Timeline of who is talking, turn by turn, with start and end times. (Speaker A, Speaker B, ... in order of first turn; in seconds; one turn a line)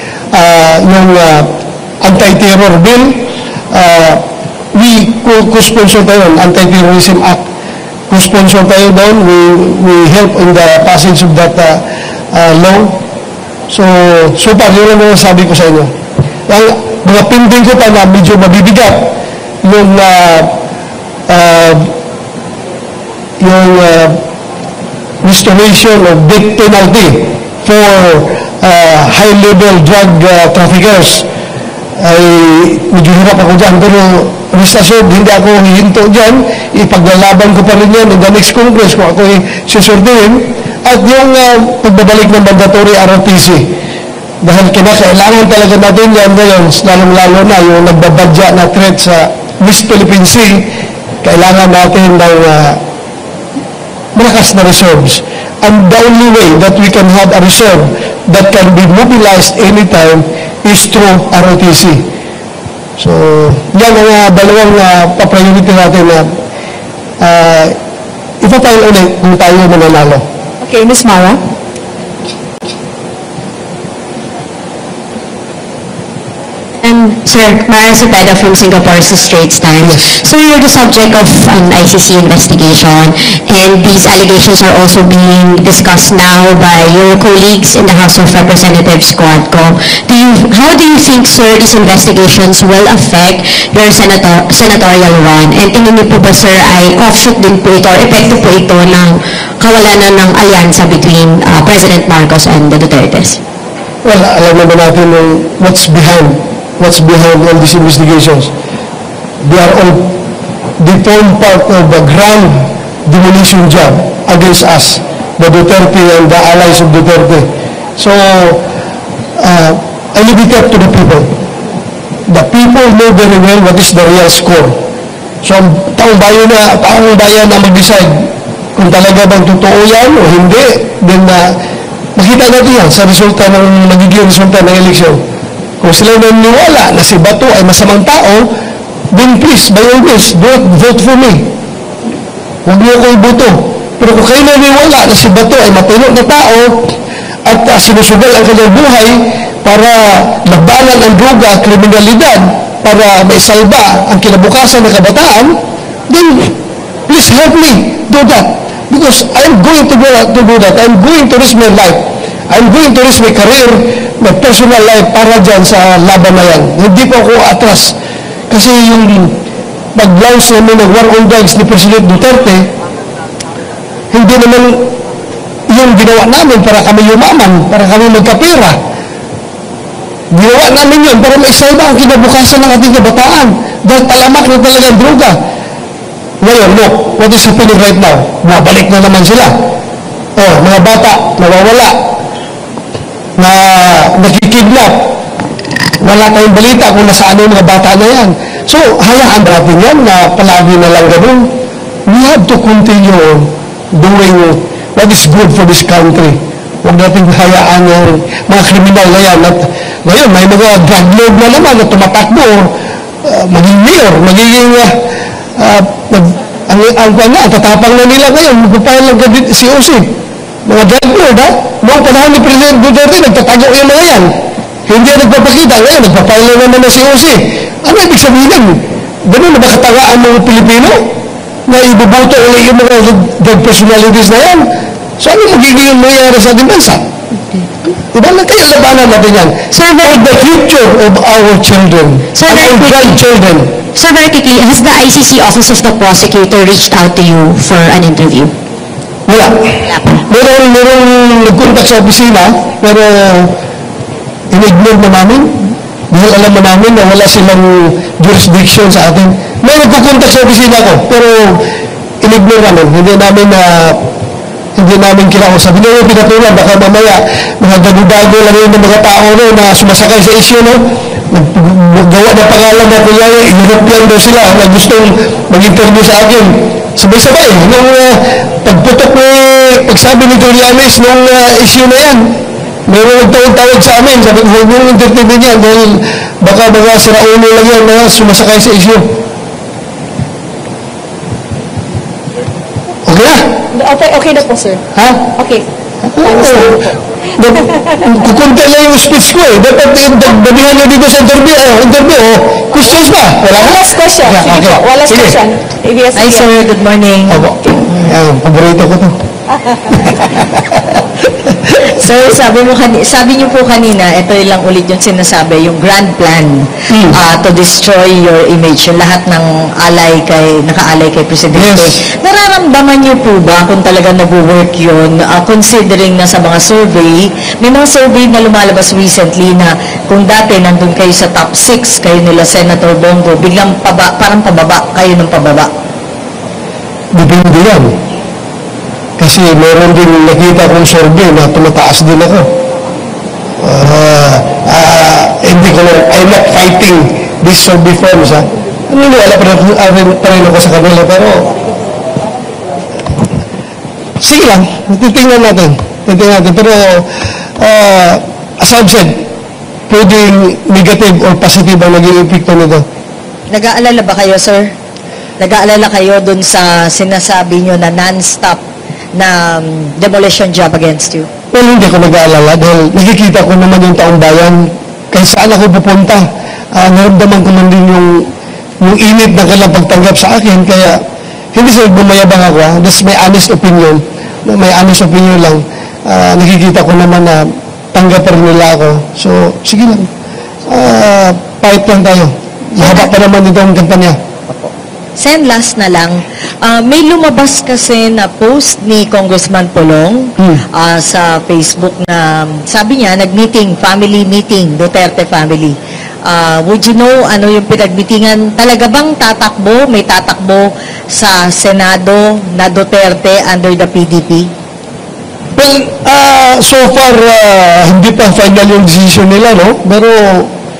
Speaker A: 0.3-7.4
Speaker A: 8.1-13.0
Speaker A: 13.7-15.9
Speaker A: 16.5-20.6
Speaker A: 21.3-21.9
Speaker A: 23.4-24.2
Speaker A: 25.2-31.3
Speaker A: 32.0-43.7
Speaker A: 44.4-50.7
Speaker A: 51.2-52.8
Speaker A: 54.2-62.0
Speaker A: 63.0-66.3
Speaker A: 67.2-67.8
Speaker A: 68.4-70.2
Speaker B: 70.6-71.4
Speaker C: 76.8-103.4
Speaker A: 79.9-80.1
Speaker A: 104.0-108.5
Speaker A: 109.4-110.2
Speaker A: 110.8-118.7
Speaker A: 119.4-121.3
Speaker A: 122.3-124.8
Speaker A: 125.4-131.5
Speaker A: 132.2-135.2
Speaker A: 135.8-138.5
Speaker A: 139.1-141.4
Speaker A: 142.7-146.9
Speaker A: 147.5-155.6
Speaker A: 156.1-156.6
Speaker A: 157.1-167.9
Speaker A: 168.5-169.3
Speaker A: 169.9-172.7
Speaker A: 174.1-174.9
Speaker A: 175.7-178.8
Speaker A: 180.3-185.4
Speaker A: 186.4-189.5
Speaker A: 190.4-192.0
Speaker A: 193.4-195.1
Speaker A: 196.0-201.5
Speaker A: 202.1-212.7
Speaker A: 213.2-214.9
Speaker A: 215.6-220.1
Speaker A: 220.7-224.3
Speaker A: 224.9-231.1
Speaker A: 231.7-234.7
Speaker A: 235.2-237.0
Speaker A: 238.1-243.7
Speaker C: 239.7-240.2
Speaker C: 242.3-243.2
Speaker C: 243.9-248.5
Speaker A: 249.3-253.5
Speaker A: 254.5-261.6
Speaker A: 262.2-264.0
Speaker A: 264.8-282.2
Speaker A: 282.9-289.1
Speaker A: 293.1-293.4
Speaker B: 293.7-294.8
Speaker A: 294.9-295.3
Speaker B: 295.4-295.6
Speaker A: 296.1-305.4
Speaker B: 296.2-296.9
Speaker B: 303.6-306.5
Speaker D: 306.1-308.1
Speaker A: 307.3-309.2
Speaker A: 309.9-310.8
Speaker D: 311.8-335.7
Speaker A: 316.9-317.2
Speaker A: 321.5-322.0
Speaker A: 337.1-337.9
Speaker A: 339.2-342.5
Speaker A: 343.6-351.5
Speaker A: 354.2-357.1
Speaker A: 357.6-359.1
Speaker A: 359.9-362.9
Speaker D: 363.5-364.7
Speaker D: 365.4-368.6
Speaker D: 369.2-371.3
Speaker A: 371.5-378.2
Speaker A: 378.8-381.0
Speaker A: 381.6-390.1
Speaker A: 390.7-394.2
Speaker D: 392.8-393.1
Speaker D: 395.2-414.5
Speaker A: 415.6-420.5